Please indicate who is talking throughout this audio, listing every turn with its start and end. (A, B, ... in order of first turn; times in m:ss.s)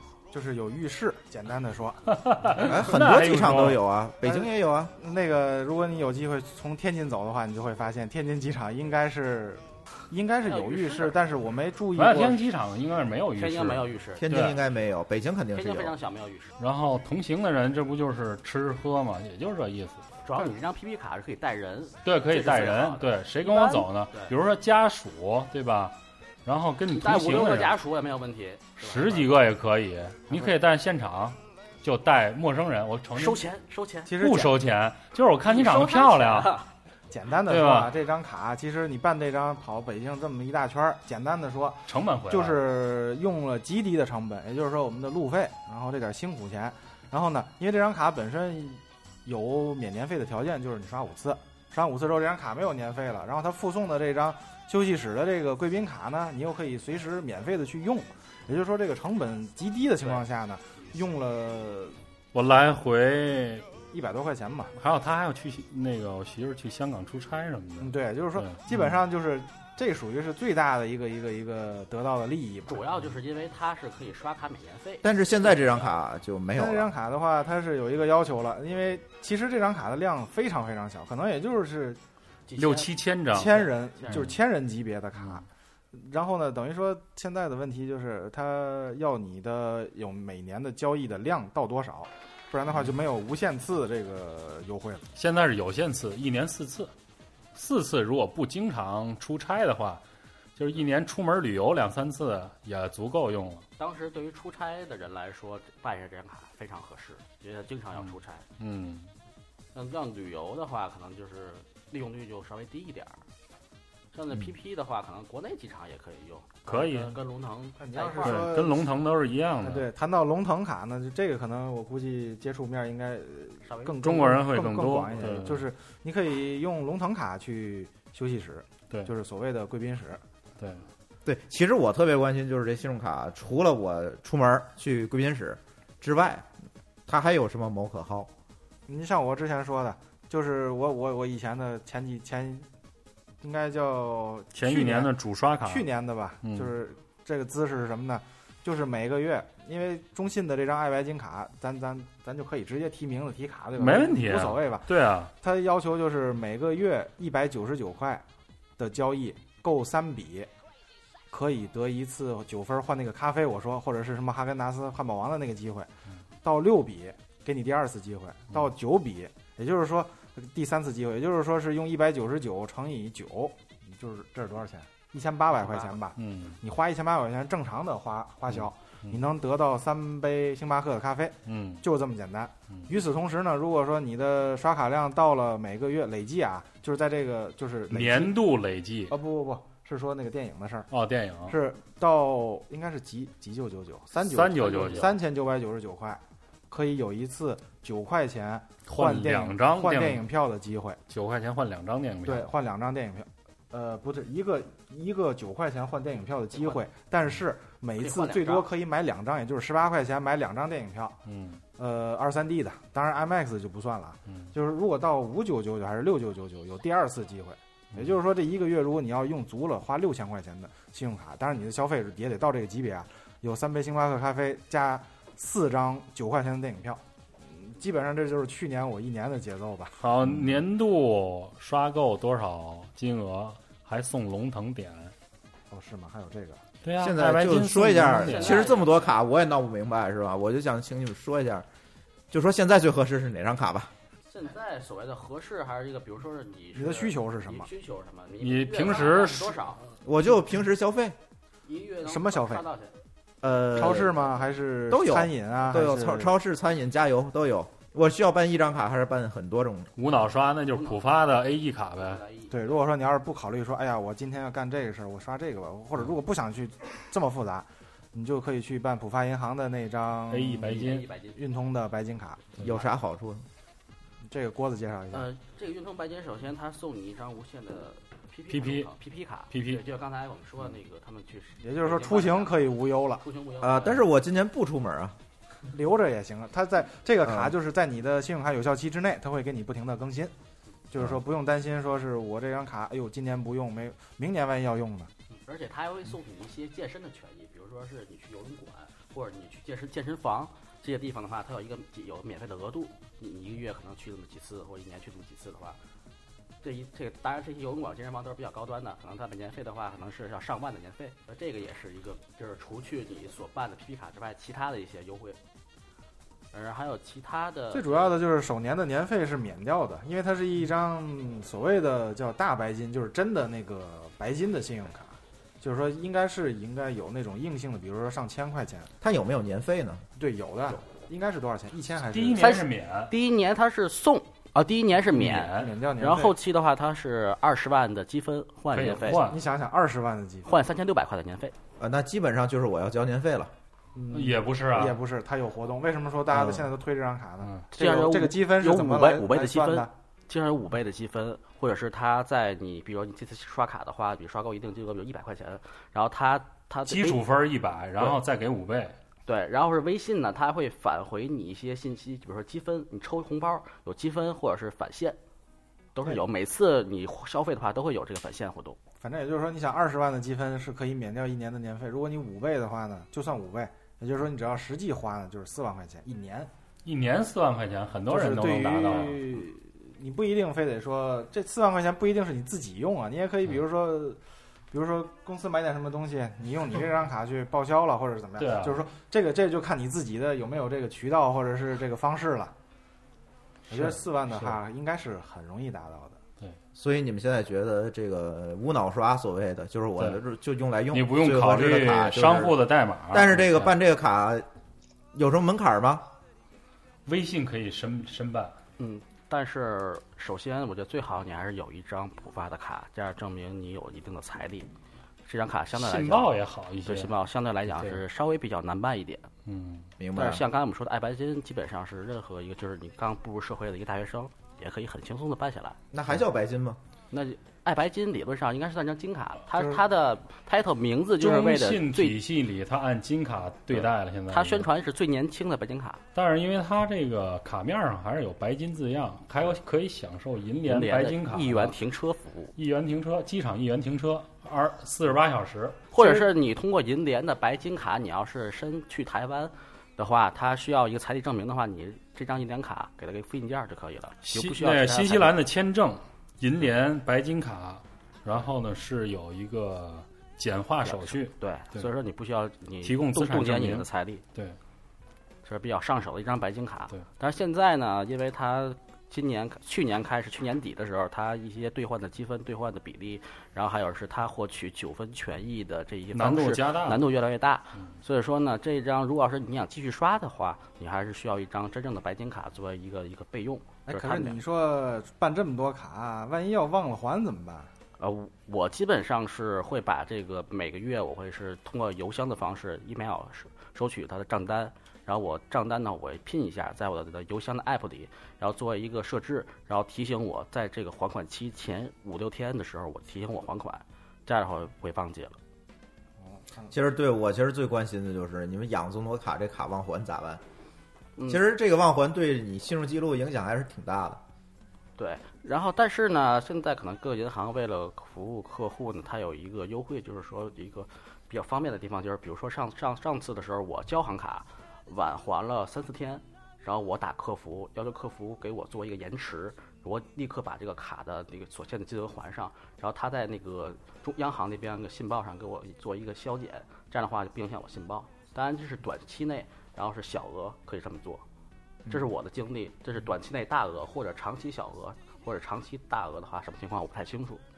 0:00.3-0:02.2 A
0:02.1-0:03.8 B
0:02.6-0:04.9 C
0:04.2-0:12.4 A
0:10.4-0:11.2 D
0:12.0-0:14.6 B
0:13.4-0:14.6 D
0:14.2-0:16.0 C
0:15.5-0:16.5 D
0:16.6-0:20.0 B
0:20.2-0:24.3 D
0:22.0-0:27.8 B
0:26.9-0:29.4 D
0:28.8-0:33.4 B
0:33.1-0:34.1 D
0:34.1-0:34.6 A
0:34.2-0:36.6 B
0:35.4-0:36.7 D
0:37.1-1:02.0 A
0:37.5-0:38.0 B
0:41.9-0:42.6 B
1:02.3-1:03.6 B
1:03.9-1:04.7 A
1:04.8-1:08.6 B
1:07.8-1:12.8 A
1:12.7-1:15.9 D
1:15.0-1:16.9 C
1:16.6-1:22.0 A
1:22.5-1:24.3 D
1:22.6-1:23.5 B
1:23.3-1:35.1 A
1:35.2-1:36.9 B
1:37.6-1:40.0 B
1:40.6-1:43.6 B
1:43.8-1:48.4 D
1:48.6-1:49.1 B
1:49.7-1:53.2 D
1:54.1-1:58.5 D
1:56.7-1:57.2 B
1:57.8-1:58.9 A
1:58.2-1:59.9 B
1:59.6-2:10.2 A
2:03.6-2:04.0 D
2:04.0-2:05.7 B
2:11.2-2:16.5 C
2:17.1-2:18.3 C
2:18.9-2:22.7 A
2:23.4-2:38.2 A
2:24.6-2:25.9 B
2:26.4-2:26.7 B
2:33.8-2:35.3 B
2:38.8-2:40.5 A
2:41.3-2:45.9 A
2:46.4-3:08.4 A
2:55.5-2:56.0 D
2:56.2-2:56.6 B
2:58.5-2:59.2 B
3:01.4-3:01.8 B
3:07.9-3:09.1 B
3:09.1-3:10.9 A
3:10.9-3:11.6 B
3:11.5-3:21.0 A
3:14.3-3:15.2 B
3:18.9-3:20.3 B
3:21.1-3:22.5 B
3:22.2-3:31.2 A
3:28.0-3:28.7 D
3:31.3-3:31.6 B
3:31.8-3:50.0 A
3:50.0-3:55.1 B
3:55.7-3:56.6 A
3:56.8-3:58.6 B
3:57.0-4:01.6 C
3:58.2-3:59.0 D
4:02.3-4:03.9 C
4:04.3-4:09.8 D
4:06.7-4:07.7 A
4:08.4-4:09.6 B
4:10.0-4:11.2 C
4:11.7-4:12.9 D
4:12.0-4:12.6 A
4:13.4-4:14.2 C
4:13.7-4:16.3 A
4:14.9-4:19.9 C
4:20.0-4:22.2 B
4:20.7-4:21.0 D
4:22.0-4:22.5 D
4:22.5-4:32.6 A
4:30.3-4:31.1 B
4:30.7-4:31.4 D
4:32.6-4:33.4 C
4:34.3-4:35.3 A
4:35.1-4:44.0 D
4:38.5-4:38.9 B
4:39.5-4:39.8 B
4:41.6-4:43.2 A
4:43.6-4:45.2 C
4:45.7-4:50.3 A
4:47.2-4:47.5 C
4:50.9-4:55.1 A
4:55.3-5:05.8 D
5:06.6-5:15.4 D
5:16.5-5:18.2 D
5:17.7-5:28.9 A
5:29.0-5:30.0 C
5:30.2-5:32.6 A
5:32.1-5:33.1 B
5:32.4-5:39.2 D
5:35.1-5:35.7 B
5:35.6-5:36.3 A
5:38.7-5:39.4 B
5:39.2-5:40.5 A
5:40.4-5:41.6 D
5:41.8-5:43.5 C
5:44.0-5:49.9 A
5:44.1-5:45.0 B
5:47.8-5:57.2 D
5:56.9-5:59.0 B
5:59.3-6:05.2 D
6:06.0-6:08.8 D
6:09.0-6:16.5 A
6:16.8-6:19.2 B
6:18.1-6:24.2 A
6:24.7-6:32.5 A
6:28.4-6:28.8 B
6:33.7-6:34.6 B
6:33.7-6:36.2 A
6:36.7-6:42.6 C
6:40.9-6:43.7 B
6:43.1-6:44.4 C
6:45.1-6:46.1 C
6:47.1-6:48.6 B
6:48.8-6:54.7 D
6:55.3-6:59.3 D
6:55.7-6:57.1 B
6:57.7-6:58.0 B
6:59.4-6:59.9 B
7:00.0-7:00.4 C
7:00.1-7:05.8 D
7:05.9-7:06.8 C
7:07.1-7:12.2 D
7:11.2-7:14.7 B
7:13.7-7:16.0 D
7:16.1-7:21.8 B
7:20.6-7:22.5 D
7:22.6-7:25.9 B
7:25.9-7:35.3 D
7:34.2-7:41.9 B
7:40.8-7:44.2 D
7:42.8-7:44.6 B
7:45.4-8:04.4 D
7:56.1-7:57.0 B
8:03.9-8:07.7 A
8:08.0-8:25.4 D
8:26.2-8:26.7 A
8:26.7-8:30.4 C
8:31.2-8:31.4 D
8:31.3-8:34.2 C
8:35.0-9:01.2 D
9:01.9-9:07.4 D